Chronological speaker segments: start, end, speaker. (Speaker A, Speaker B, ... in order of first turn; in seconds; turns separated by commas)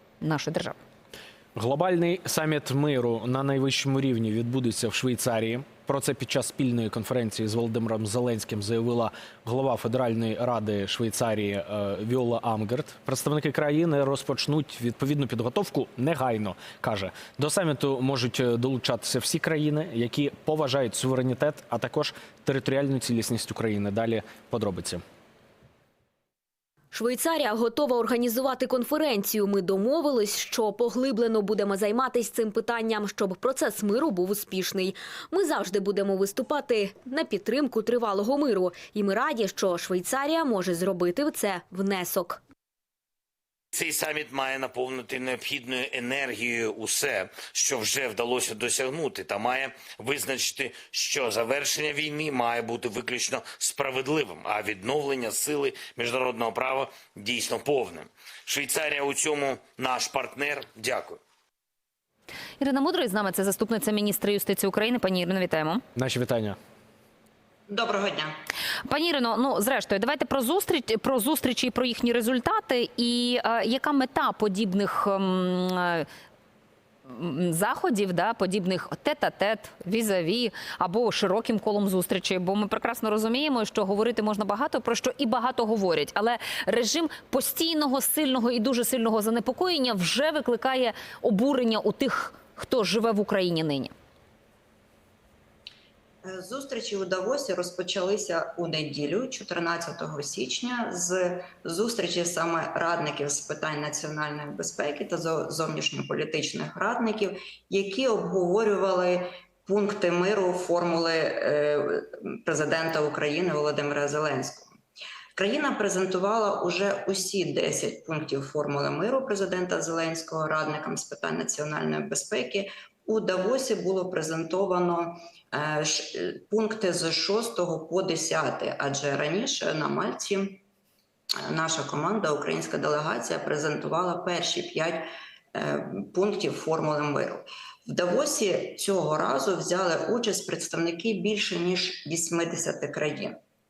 Speaker A: 0.2-0.8, Speaker B: 1.6-25.0, Speaker C: 26.9-42.4, Speaker D: 43.7-61.2, Speaker A: 62.6-65.8, Speaker B: 66.0-66.6, Speaker E: 67.7-68.3, Speaker A: 68.9-76.1, Speaker A: 77.1-93.9, Speaker E: 96.2-114.8, Speaker E: 115.3-130.6, Speaker E: 131.5-143.4